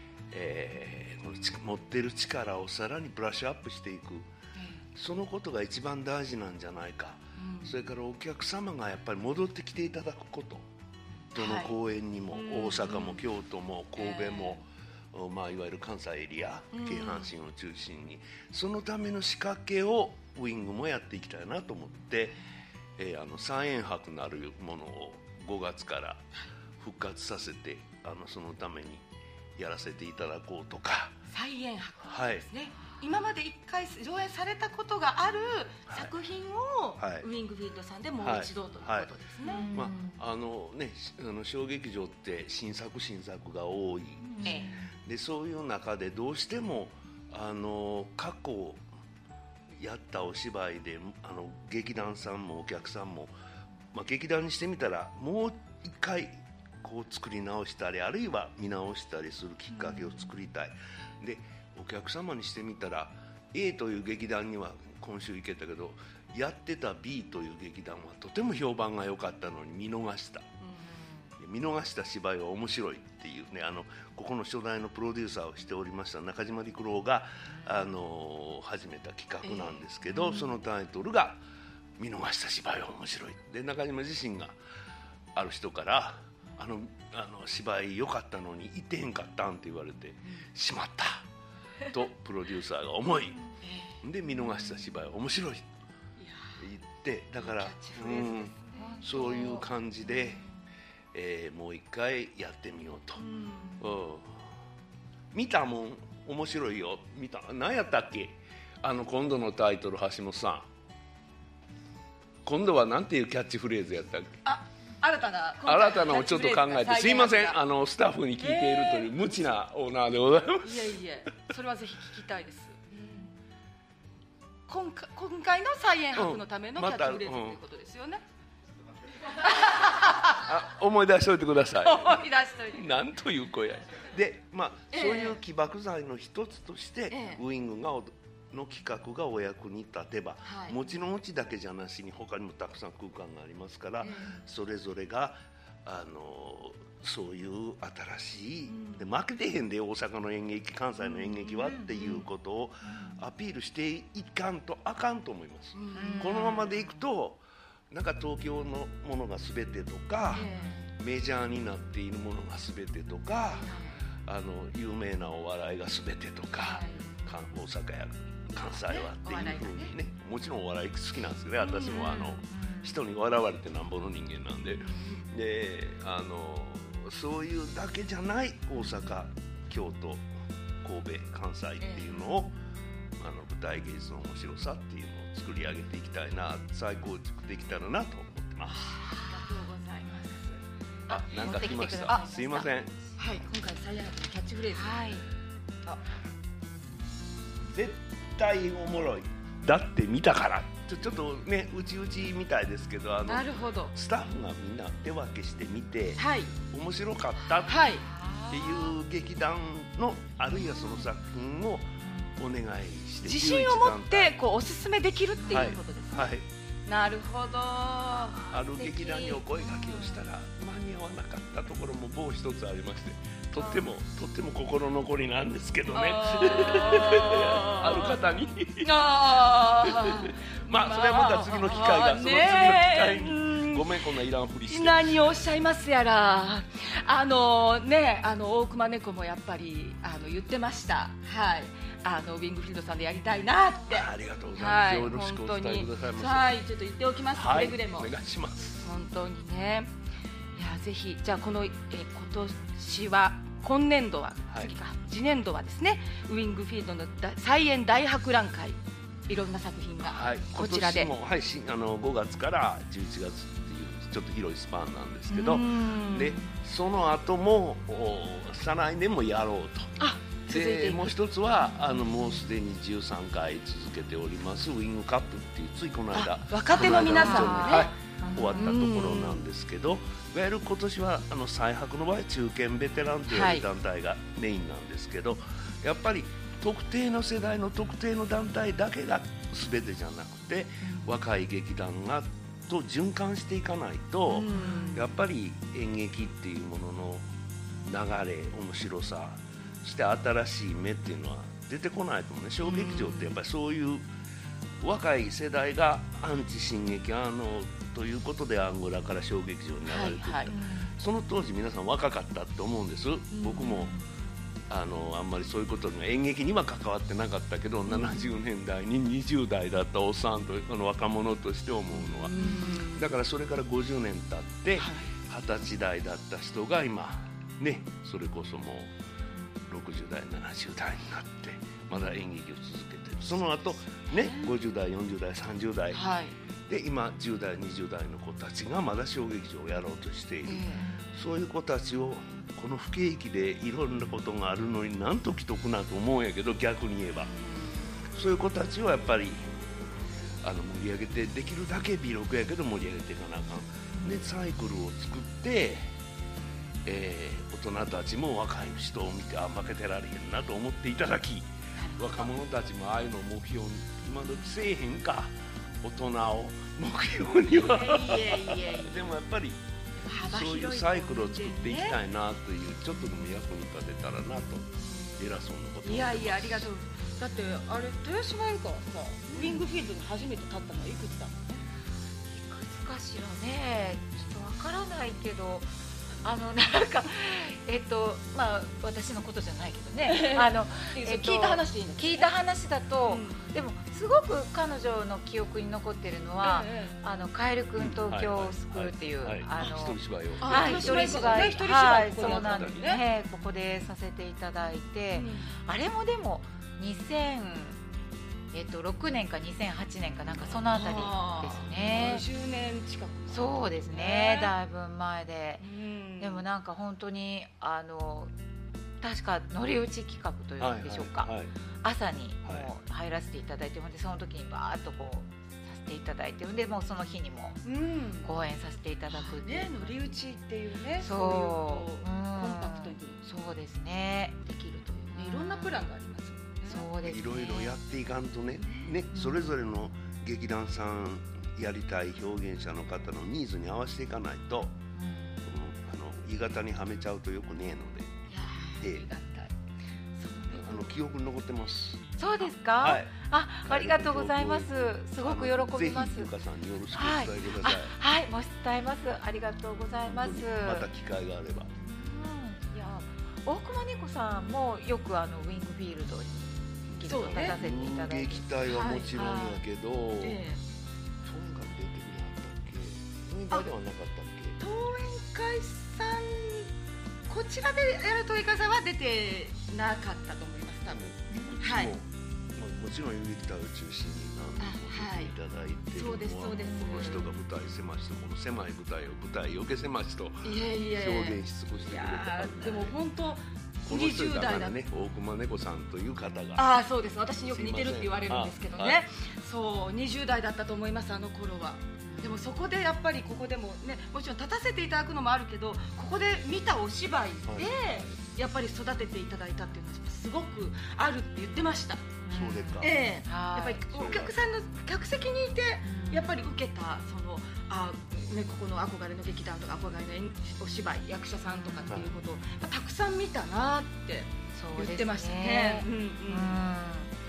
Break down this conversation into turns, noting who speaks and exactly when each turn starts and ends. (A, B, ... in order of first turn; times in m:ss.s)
0:00.3-0:04.3 A
0:04.6-0:04.8 B
0:04.9-0:10.7 A
0:07.4-0:07.8 B
0:11.3-0:11.7 B
0:11.3-0:22.4 A
0:12.3-0:13.2 B
0:14.0-0:14.6 B
0:16.7-0:17.3 B
0:23.0-0:26.2 A
0:26.8-0:29.0 A
0:29.6-0:31.2 A
0:31.3-0:39.7 B
0:32.0-0:32.4 A
0:37.0-0:37.2 A
0:38.2-0:39.1 A
0:39.5-0:40.2 C
0:39.7-0:48.8 A
0:44.3-0:44.8 C
0:44.4-0:44.8 B
0:49.7-0:53.3 A
0:53.9-1:10.5 A
1:11.4-1:21.4 A
1:19.4-1:19.8 B
1:22.0-1:24.6 A
1:25.3-1:31.2 A
1:31.9-1:33.4 A
1:33.6-1:34.0 B
1:34.0-1:35.7 A
1:36.2-1:36.6 B
1:36.6-1:40.4 A
1:37.4-1:38.8 B
1:38.8-1:39.6 C
1:41.1-1:43.2 A
1:43.2-1:43.8 B
1:43.8-1:44.5 A
1:45.3-1:50.7 A
1:52.4-1:54.4 A
1:54.4-1:57.6 B
1:55.6-2:00.9 A
1:58.4-1:59.1 B
2:00.6-2:03.0 B
2:04.7-2:08.2 B
2:06.1-2:07.6 A
2:09.4-2:10.4 B
2:10.2-2:43.7 A
2:11.8-2:12.9 B
2:14.9-2:15.4 B
2:17.1-2:17.4 B
2:20.4-2:20.8 B
2:24.0-2:24.4 B
2:28.7-2:29.0 B
2:35.7-2:36.7 B
2:36.0-2:36.8 C
2:40.3-2:40.9 B
2:43.6-2:44.0 B
2:44.2-3:00.2 A
2:46.6-2:47.2 B
2:48.9-2:49.9 B
2:51.6-2:52.4 B
2:52.5-2:52.8 C
2:54.8-2:55.3 B
3:00.8-3:02.5 A
3:01.8-3:02.4 B
3:03.2-3:08.9 A
3:08.7-3:10.6 B
3:11.1-3:12.7 C
3:11.1-3:12.9 A
3:13.2-3:15.0 B
3:14.7-3:15.2 C
3:17.7-3:27.9 A
3:23.3-3:23.9 B
3:26.2-3:26.5 B
3:27.6-3:28.0 B
3:28.0-3:28.9 C
3:28.5-3:34.3 A
3:33.2-3:36.3 B
3:35.5-3:35.8 C
3:35.5-3:36.5 A
3:36.8-3:38.5 B
3:38.5-3:48.9 A
3:38.7-3:40.1 C
3:45.9-3:48.2 B
3:48.8-3:53.9 B
3:49.8-3:55.4 A
3:54.7-4:08.1 B
4:03.9-4:06.5 A
4:07.3-4:08.8 A
4:08.8-4:09.9 B
4:10.6-4:21.1 B
4:20.0-4:29.9 A
4:25.3-4:26.5 B
4:30.0-4:31.1 B
4:30.5-4:57.3 A
4:36.1-4:37.9 B
4:36.9-4:38.7 C
4:38.5-4:39.5 B
4:43.3-4:43.6 B
4:54.3-4:55.1 B
4:57.8-5:04.1 A
5:02.6-5:03.4 B
5:04.8-5:13.9 A
5:09.9-5:10.9 B
5:13.3-5:14.0 B
5:14.7-5:28.9 A
5:17.9-5:18.2 B
5:22.2-5:23.0 B
5:24.8-5:25.1 B
5:29.7-5:36.0 A
5:35.9-5:36.4 B
5:36.7-5:47.3 A
5:40.4-5:40.9 B
5:47.2-5:47.9 B
5:48.1-5:49.5 A
5:50.4-5:55.9 A
5:56.8-6:09.6 A
6:01.8-6:02.1 B
6:07.6-6:09.0 B
6:10.0-6:12.0 B
6:10.2-6:16.7 A
6:14.9-6:15.2 B
6:15.8-6:21.6 B
6:22.3-6:25.7 C
6:26.2-6:47.8 C
6:30.0-6:32.3 B
6:33.0-6:33.4 B
6:36.4-6:37.0 B
6:37.8-6:42.9 A
6:40.4-6:43.0 B
6:45.1-6:45.5 B
6:48.5-6:52.2 C
6:50.6-6:54.5 B
6:53.3-6:55.6 C
6:55.6-6:56.4 B
6:56.2-6:58.3 C
6:59.0-7:01.3 C
7:00.6-7:01.5 A
7:01.8-7:07.6 C
7:07.6-7:08.3 B
7:08.2-7:10.0 C
7:09.1-7:13.2 B
7:11.0-7:14.4 C
7:14.4-7:16.9 B
7:15.1-7:15.9 C
7:16.6-7:17.7 C
7:17.0-7:24.8 A
7:19.1-7:19.5 C
7:25.0-7:25.4 C
7:25.4-7:28.1 A
7:28.3-7:29.5 B
7:28.8-7:29.0 A
7:30.2-7:30.9 B
7:30.5-7:32.1 A
7:32.2-7:36.3 C
7:32.8-7:33.1 A
7:33.6-7:37.9 A
7:36.9-7:40.9 C
7:40.0-7:41.7 A
7:41.8-7:48.4 C
7:46.9-7:50.4 A
7:47.0-7:47.6 B
7:48.6-7:49.2 B
7:49.1-7:49.6 C
7:50.2-7:50.6 B
7:51.2-7:54.6 A
7:54.6-7:56.7 B
7:57.3-8:01.9 B
8:00.9-8:13.0 A
8:04.6-8:05.3 B
8:05.9-8:07.3 B
8:10.4-8:14.8 B
8:13.8-8:16.7 A
8:16.6-8:32.0 B
8:17.4-8:19.0 A
8:22.0-8:22.4 C
8:27.4-8:27.8 A
8:32.2-8:33.8 C
8:32.3-8:33.0 A
8:32.8-8:46.6 B
8:33.9-8:34.3 A
8:35.8-8:36.4 C
8:41.5-8:42.0 C
8:44.5-8:47.1 C